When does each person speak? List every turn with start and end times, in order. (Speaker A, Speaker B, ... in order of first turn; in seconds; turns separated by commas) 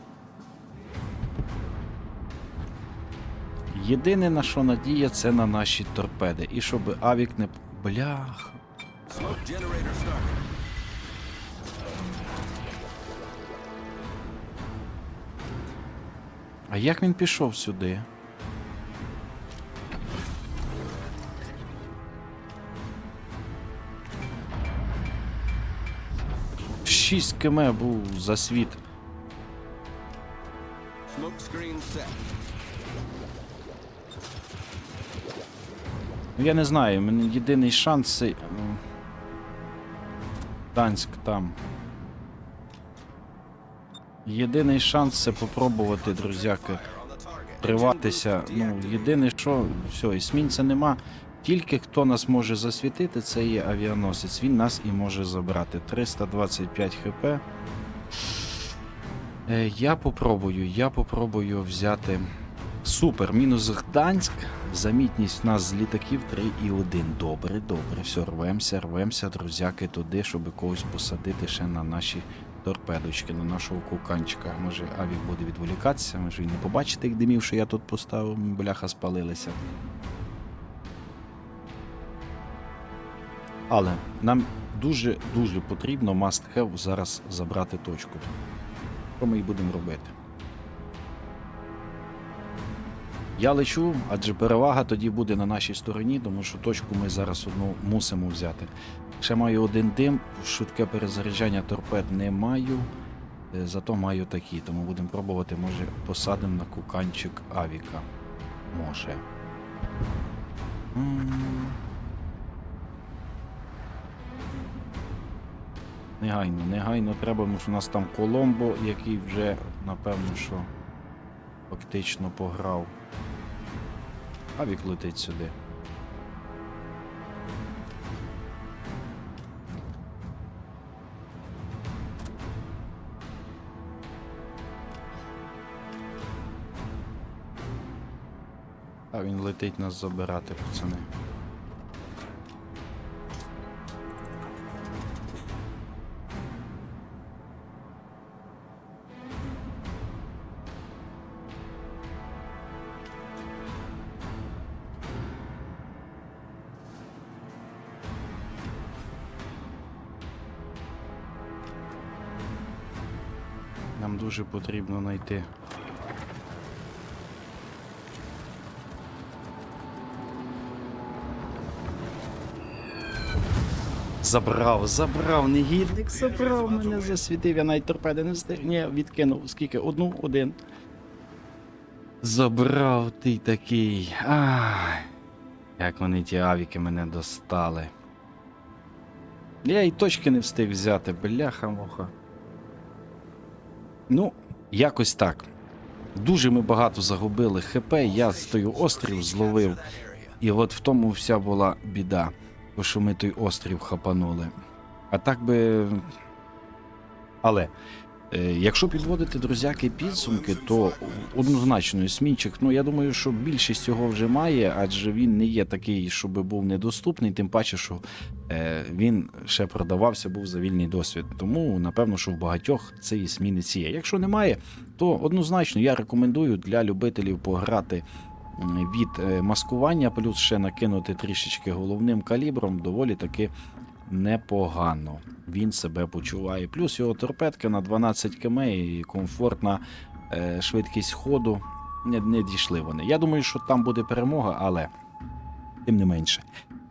Speaker A: 3.7-8.6, Speaker B: 9.1-10.4, Speaker A: 16.7-18.1, Speaker A: 26.8-28.8, Speaker B: 31.1-32.2, Speaker A: 36.4-38.8, Speaker A: 40.7-41.6, Speaker A: 44.2-46.9, Speaker B: 46.0-49.1, Speaker A: 47.6-57.4, Speaker A: 59.5-62.3, Speaker A: 62.8-79.6, Speaker A: 83.7-88.4, Speaker A: 89.2-90.1, Speaker A: 93.4-102.9, Speaker A: 103.5-108.1, Speaker A: 108.7-109.2, Speaker A: 110.9-111.8, Speaker A: 116.2-120.7, Speaker A: 121.7-122.9, Speaker A: 124.5-125.5, Speaker A: 139.1-141.1, Speaker A: 164.0-165.5, Speaker A: 174.2-180.6, Speaker B: 176.4-177.0, Speaker A: 182.2-185.1, Speaker A: 185.8-187.9, Speaker A: 189.6-192.1, Speaker A: 194.1-195.5, Speaker A: 196.2-199.8, Speaker B: 198.0-200.4, Speaker A: 200.4-204.5, Speaker A: 205.1-206.0, Speaker A: 207.4-207.7, Speaker A: 208.3-233.5, Speaker A: 234.1-244.9, Speaker A: 245.8-246.4